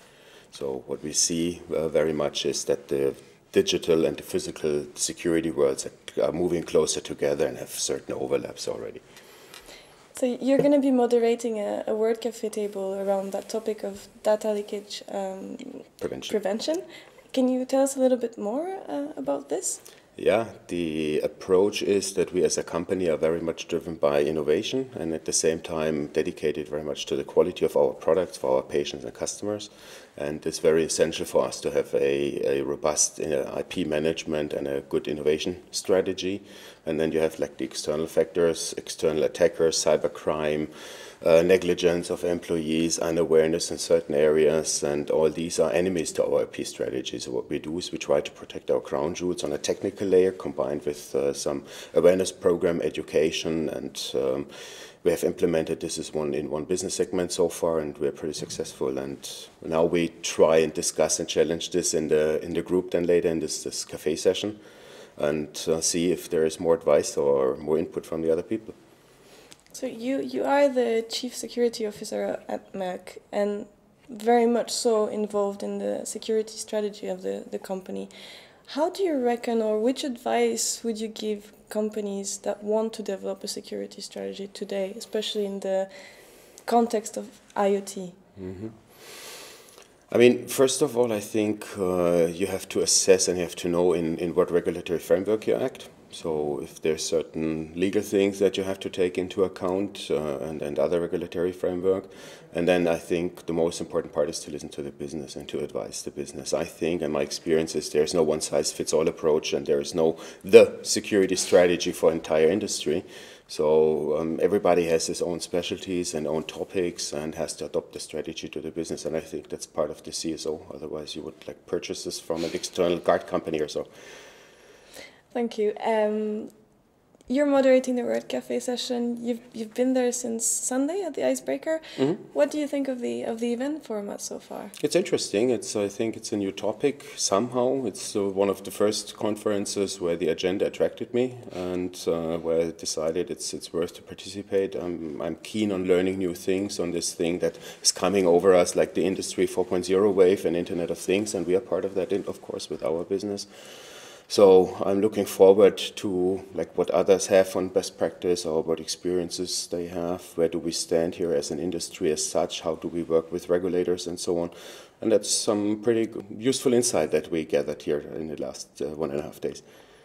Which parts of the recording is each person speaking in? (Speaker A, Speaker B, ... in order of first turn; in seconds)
Speaker A: 0.5-9.0, 16.0-16.4, 20.1-64.6, 65.2-68.7, 88.3-89.3, 90.1-123.9, 131.9-132.2, 134.8-169.6
Speaker B: 10.1-19.8, 69.7-78.1, 78.6-88.3, 125.3-126.7, 127.2-134.7